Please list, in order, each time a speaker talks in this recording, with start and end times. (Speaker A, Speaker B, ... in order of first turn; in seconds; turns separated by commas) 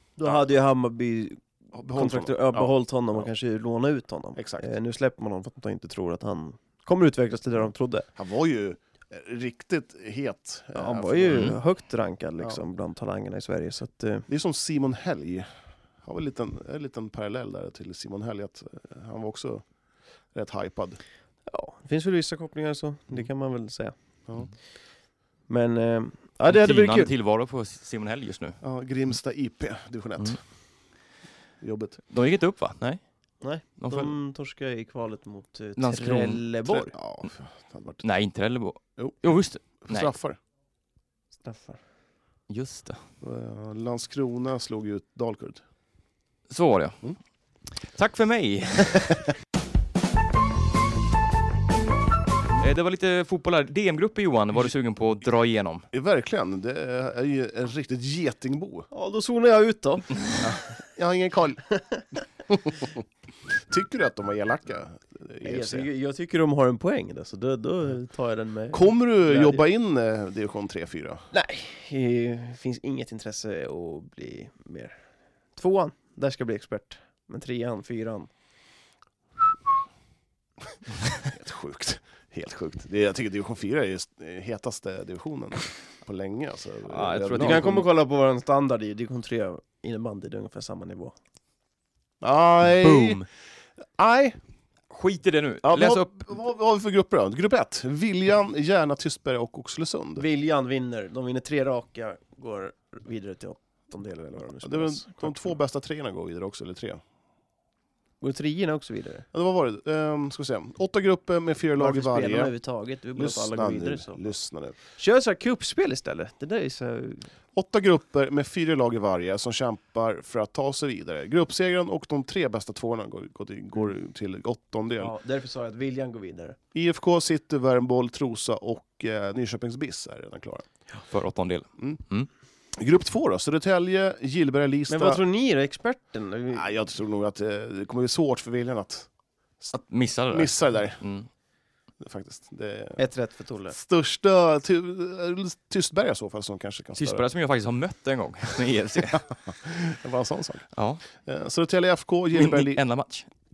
Speaker A: 0.2-8.1, Speaker B: 1.7-3.3, Speaker B: 4.4-4.7, Speaker B: 8.2-11.6, Speaker A: 10.7-14.3, Speaker C: 11.3-11.6, Speaker B: 14.3-15.5, Speaker B: 16.0-19.6, Speaker B: 20.3-21.0, Speaker A: 21.5-23.9, Speaker A: 25.5-27.1, Speaker C: 26.5-28.6, Speaker B: 28.6-30.4, Speaker B: 31.6-32.0, Speaker C: 32.1-33.0, Speaker A: 33.4-36.9, Speaker C: 33.8-34.1, Speaker C: 35.8-36.4, Speaker B: 36.7-38.0, Speaker C: 38.0-40.1, Speaker B: 39.0-39.2, Speaker B: 39.8-40.4, Speaker A: 41.4-41.8, Speaker C: 42.5-43.0, Speaker B: 43.2-45.6, Speaker C: 46.5-47.0, Speaker C: 47.9-49.2, Speaker C: 52.6-55.9, Speaker B: 55.9-58.9, Speaker A: 58.9-60.4, Speaker B: 60.4-61.6, Speaker A: 61.7-62.0, Speaker B: 62.5-63.0, Speaker B: 63.7-65.9, Speaker A: 65.4-69.6, Speaker B: 68.7-71.2, Speaker A: 71.3-75.0, Speaker A: 75.6-78.3, Speaker B: 81.2-87.8, Speaker C: 86.9-87.9, Speaker A: 87.4-91.2, Speaker B: 92.2-93.2, Speaker C: 92.8-93.2, Speaker B: 94.0-94.4, Speaker C: 94.9-96.1, Speaker B: 95.6-100.2, Speaker A: 100.2-105.5, Speaker B: 104.6-107.0, Speaker A: 108.2-109.2, Speaker B: 109.3-112.5, Speaker A: 111.8-114.2, Speaker B: 113.2-114.8, Speaker A: 115.0-117.3, Speaker B: 117.5-125.1, Speaker A: 125.0-126.6, Speaker B: 126.7-130.7, Speaker C: 131.1-132.3, Speaker B: 132.8-135.2, Speaker A: 134.9-136.7, Speaker B: 136.5-139.1, Speaker C: 139.7-141.3, Speaker B: 140.3-141.0, Speaker B: 142.0-143.0, Speaker A: 143.0-143.8, Speaker B: 143.7-147.2, Speaker C: 147.0-149.3, Speaker B: 149.2-150.7, Speaker C: 150.8-151.0, Speaker B: 151.2-152.8, Speaker C: 152.3-153.3